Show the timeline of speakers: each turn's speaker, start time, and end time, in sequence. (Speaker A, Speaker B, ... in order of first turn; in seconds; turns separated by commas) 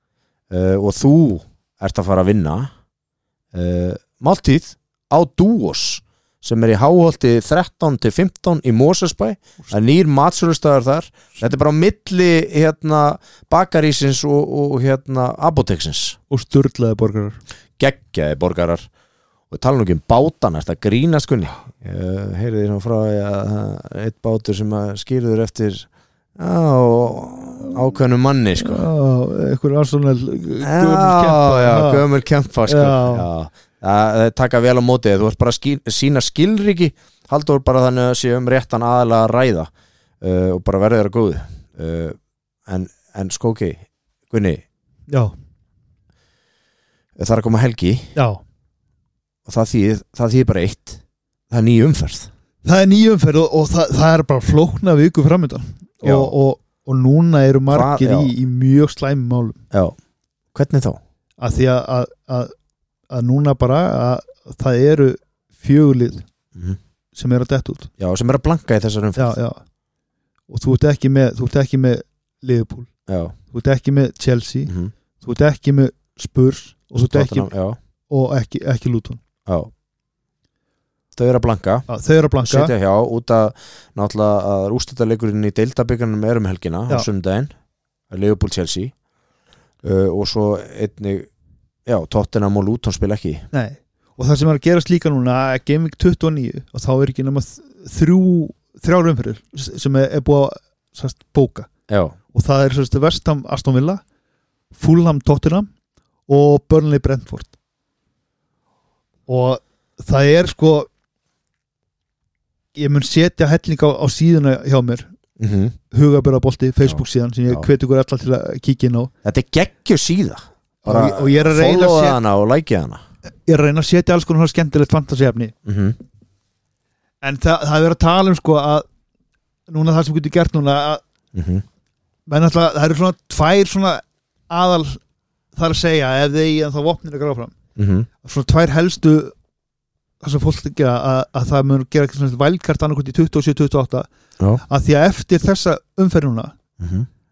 Speaker A: 0.5-2.7, Speaker A: 3.5-16.2, Speaker B: 16.3-17.4, Speaker A: 17.8-18.9, Speaker A: 19.5-28.9, Speaker B: 28.6-32.0, Speaker A: 30.6-44.6, Speaker B: 32.6-33.3, Speaker B: 45.1-45.4, Speaker A: 47.2-48.1, Speaker B: 48.1-48.4, Speaker A: 49.5-52.3, Speaker B: 52.6-59.6, Speaker A: 56.0-56.3, Speaker A: 57.7-58.3, Speaker A: 59.7-60.0, Speaker A: 60.5-61.0, Speaker B: 61.4-62.5, Speaker B: 63.1-66.2, Speaker B: 67.2-67.9, Speaker A: 68.0-69.4, Speaker B: 69.2-69.6, Speaker B: 70.5-72.9, Speaker A: 73.1-73.3, Speaker B: 73.5-77.5, Speaker A: 74.7-74.9, Speaker A: 77.0-77.8, Speaker B: 78.1-79.2, Speaker A: 79.5-79.7, Speaker A: 81.2-81.9, Speaker B: 81.9-82.7, Speaker A: 82.4-87.5, Speaker A: 88.1-88.9, Speaker A: 89.8-91.3, Speaker A: 91.9-93.5, Speaker B: 93.5-101.7, Speaker A: 101.9-102.2, Speaker B: 102.3-104.0, Speaker B: 104.7-105.7, Speaker B: 106.3-107.5, Speaker B: 109.3-110.9, Speaker B: 112.8-115.1, Speaker A: 115.4-115.8, Speaker B: 115.9-119.1, Speaker A: 116.8-117.7, Speaker A: 119.2-123.0, Speaker B: 120.8-122.2, Speaker B: 123.5-125.5, Speaker A: 125.7-126.0, Speaker B: 127.2-128.9, Speaker B: 129.7-131.0, Speaker A: 131.3-131.6, Speaker B: 132.3-135.0, Speaker B: 135.5-137.6, Speaker A: 137.8-138.1, Speaker B: 138.2-139.3, Speaker B: 140.2-144.1, Speaker B: 144.6-146.6, Speaker A: 146.8-147.1